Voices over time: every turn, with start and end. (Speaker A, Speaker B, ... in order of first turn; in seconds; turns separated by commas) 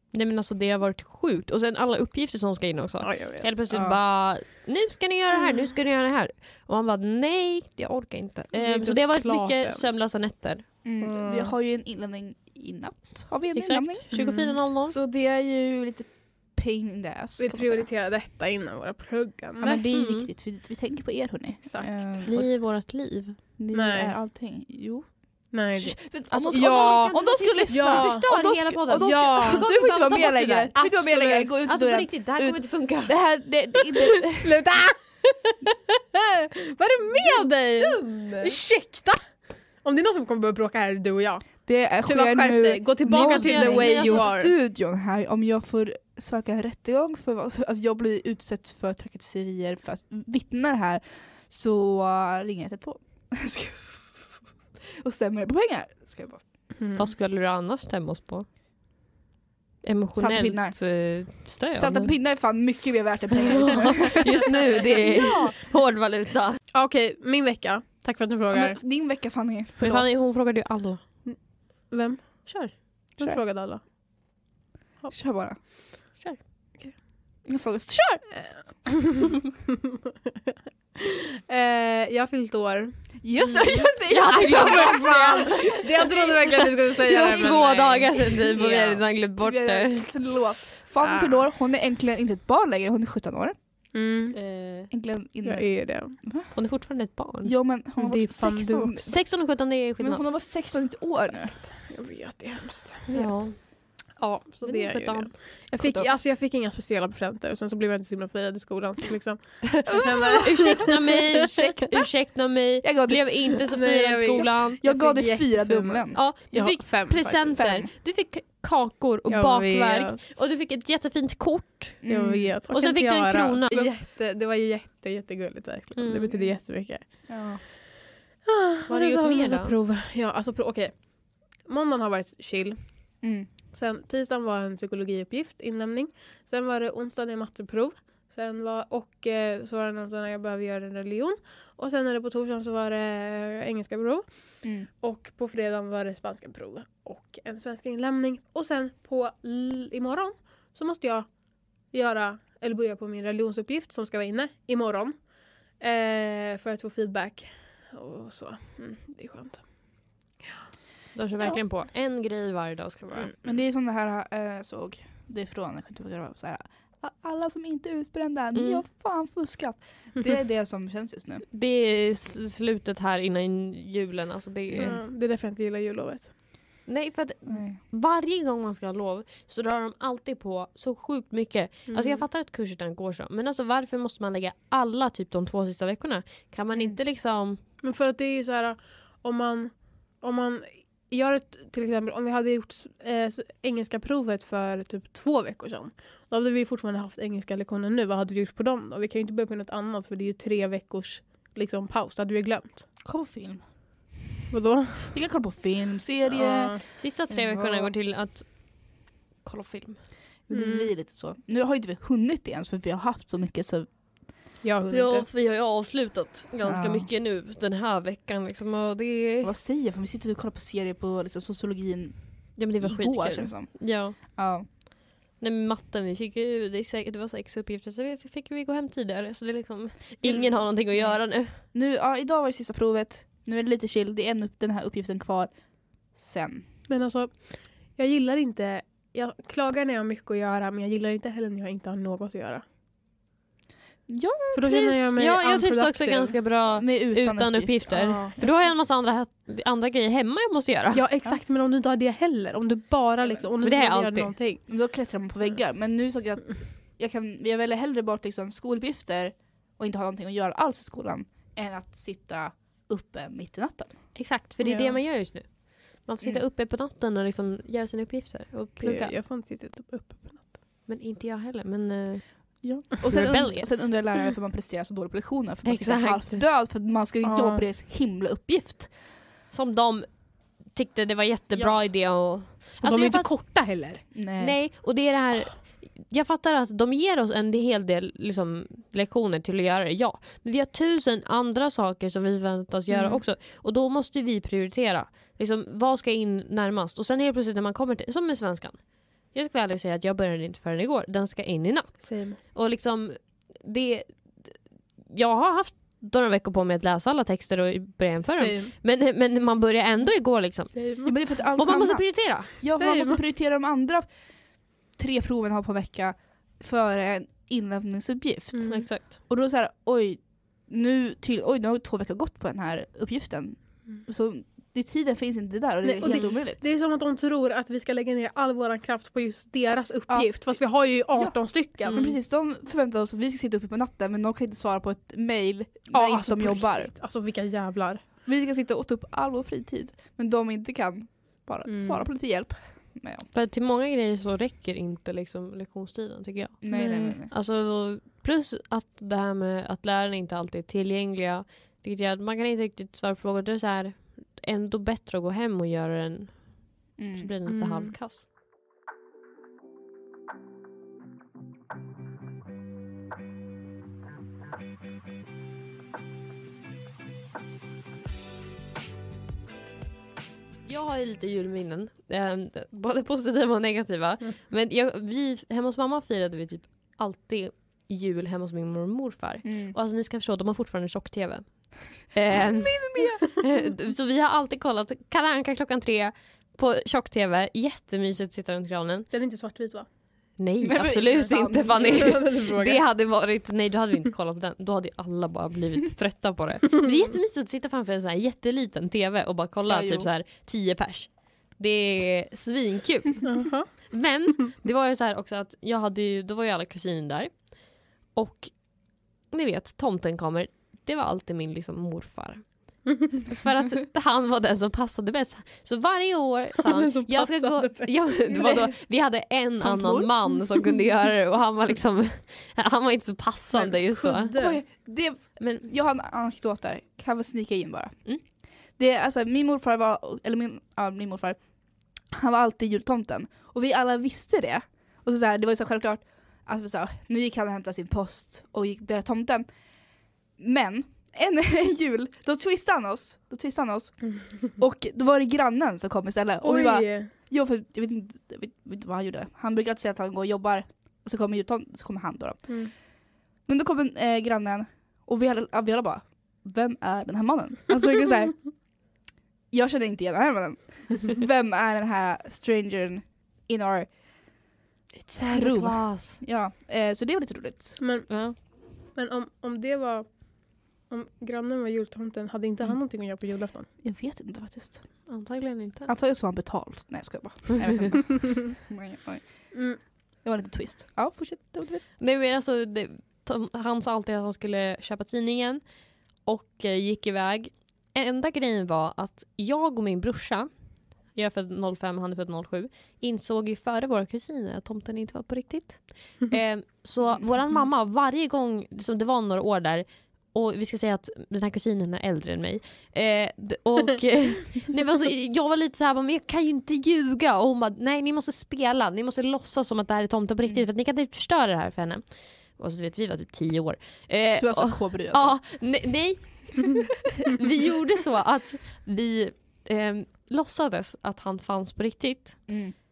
Speaker A: 0.1-10.7, Speaker B: 3.0-3.5, Speaker C: 3.7-4.0, Speaker B: 8.6-9.8, Speaker C: 10.8-14.1, Speaker B: 11.0-11.5, Speaker A: 13.5-14.9, Speaker B: 14.1-14.6, Speaker C: 14.8-17.9, Speaker B: 17.4-19.8, Speaker C: 19.6-22.6, Speaker A: 19.9-20.3, Speaker A: 22.2-23.4, Speaker C: 23.6-34.5, Speaker B: 23.7-24.1, Speaker B: 25.5-28.3, Speaker A: 26.8-30.7, Speaker B: 28.9-29.6, Speaker B: 30.8-31.5, Speaker A: 31.6-33.4, Speaker B: 34.4-41.5, Speaker A: 37.8-38.6, Speaker C: 41.6-54.1, Speaker B: 42.0-44.5, Speaker A: 43.2-44.4, Speaker C: 55.0-56.4, Speaker B: 56.8-57.1, Speaker A: 57.0-58.5, Speaker A: 59.8-62.2, Speaker C: 60.1-61.0, Speaker C: 61.8-64.5, Speaker A: 63.3-66.6, Speaker B: 66.7-68.8, Speaker C: 68.5-70.0, Speaker A: 69.8-71.0, Speaker B: 71.2-74.5, Speaker A: 72.5-73.2, Speaker C: 75.1-75.6, Speaker C: 77.4-78.3, Speaker B: 78.3-79.4, Speaker B: 81.0-83.0, Speaker C: 83.2-86.1, Speaker A: 83.7-85.8, Speaker B: 84.6-89.0, Speaker A: 87.0-90.1, Speaker C: 87.1-87.6, Speaker C: 89.4-93.5, Speaker B: 91.0-91.4, Speaker B: 93.9-94.3, Speaker A: 94.3-94.9, Speaker C: 94.9-96.5, Speaker B: 95.4-96.2, Speaker A: 96.5-97.5, Speaker C: 97.4-99.2, Speaker B: 98.0-99.0, Speaker A: 99.1-100.2, Speaker C: 100.0-101.6, Speaker B: 101.2-110.9, Speaker A: 103.1-104.0, Speaker A: 104.6-105.5, Speaker C: 105.8-106.1, Speaker C: 109.9-110.3, Speaker A: 110.3-114.8, Speaker C: 112.8-113.3, Speaker B: 113.7-117.6, Speaker C: 114.8-116.2, Speaker A: 116.1-122.0, Speaker C: 117.4-117.9, Speaker B: 119.3-120.3, Speaker C: 122.0-122.5, Speaker B: 122.1-127.4, Speaker A: 122.7-123.8, Speaker A: 126.0-126.3, Speaker C: 127.2-127.6, Speaker B: 128.4-133.2, Speaker A: 128.9-129.7, Speaker C: 133.2-133.5, Speaker B: 133.7-151.3, Speaker C: 144.6-144.9, Speaker B: 151.9-160.1, Speaker A: 161.1-163.4, Speaker C: 163.4-171.4, Speaker A: 168.5-168.8, Speaker A: 171.5-175.0, Speaker C: 174.7-174.9, Speaker B: 174.8-176.3, Speaker A: 176.8-187.6, Speaker C: 177.5-177.8, Speaker B: 181.9-182.2, Speaker B: 187.8-202.9, Speaker C: 203.0-203.7, Speaker B: 204.5-205.1, Speaker C: 205.1-207.9, Speaker B: 206.3-206.8, Speaker A: 207.0-210.1, Speaker C: 210.5-213.9, Speaker B: 210.5-210.9, Speaker B: 214.6-215.2, Speaker A: 214.9-219.5, Speaker C: 216.6-217.1, Speaker C: 219.4-224.7, Speaker A: 222.6-224.2, Speaker A: 225.4-231.6, Speaker C: 230.2-236.6, Speaker B: 236.9-242.6, Speaker C: 244.1-245.2, Speaker B: 244.5-246.4, Speaker A: 245.2-251.0, Speaker C: 246.7-248.1, Speaker B: 247.9-248.5, Speaker B: 250.9-254.6, Speaker A: 253.6-254.3, Speaker C: 254.7-264.0, Speaker A: 264.1-269.1, Speaker B: 264.6-264.9, Speaker B: 268.8-270.6, Speaker A: 270.9-274.0, Speaker C: 272.6-278.9, Speaker A: 275.6-276.4, Speaker B: 277.2-277.6, Speaker A: 279.5-283.3, Speaker B: 282.8-284.0, Speaker C: 284.1-284.6, Speaker A: 284.4-304.5, Speaker B: 292.9-293.2, Speaker B: 302.0-302.4, Speaker A: 305.1-312.5, Speaker B: 308.3-308.7, Speaker B: 310.7-311.1, Speaker C: 311.0-314.1, Speaker B: 312.7-313.2, Speaker C: 314.9-326.7, Speaker B: 318.5-318.9, Speaker A: 318.6-319.2, Speaker A: 326.0-326.3, Speaker B: 326.0-332.0, Speaker C: 330.1-336.9, Speaker A: 331.9-332.1, Speaker B: 335.9-338.0, Speaker C: 338.2-343.3, Speaker B: 341.6-342.1, Speaker A: 343.3-358.2, Speaker C: 346.6-347.3, Speaker B: 346.7-347.1, Speaker C: 357.0-357.3, Speaker B: 357.5-357.9, Speaker A: 370.6-389.1, Speaker C: 379.4-379.7, Speaker C: 382.3-383.3, Speaker B: 389.1-389.9, Speaker A: 390.4-407.5, Speaker C: 390.6-392.1, Speaker B: 391.8-392.8, Speaker C: 399.7-400.1, Speaker B: 403.2-403.7, Speaker A: 408.1-424.3, Speaker B: 412.9-413.1, Speaker B: 416.6-418.5, Speaker C: 418.3-418.7, Speaker C: 419.6-420.4, Speaker B: 423.5-424.6, Speaker C: 424.4-428.1, Speaker A: 425.4-425.7, Speaker C: 428.7-431.4, Speaker C: 431.9-439.5, Speaker C: 440.4-452.6, Speaker B: 446.4-447.1, Speaker C: 453.4-458.5, Speaker C: 459.5-463.9, Speaker A: 465.0-466.2, Speaker C: 465.3-467.8, Speaker B: 467.8-468.1, Speaker A: 468.1-468.4, Speaker B: 468.9-473.7, Speaker C: 473.8-474.8, Speaker A: 475.1-475.9, Speaker C: 475.9-479.6, Speaker B: 479.5-479.8, Speaker C: 480.2-481.9, Speaker A: 482.0-485.6, Speaker A: 486.2-490.5, Speaker A: 491.1-522.5, Speaker C: 514.4-515.4, Speaker C: 522.5-522.7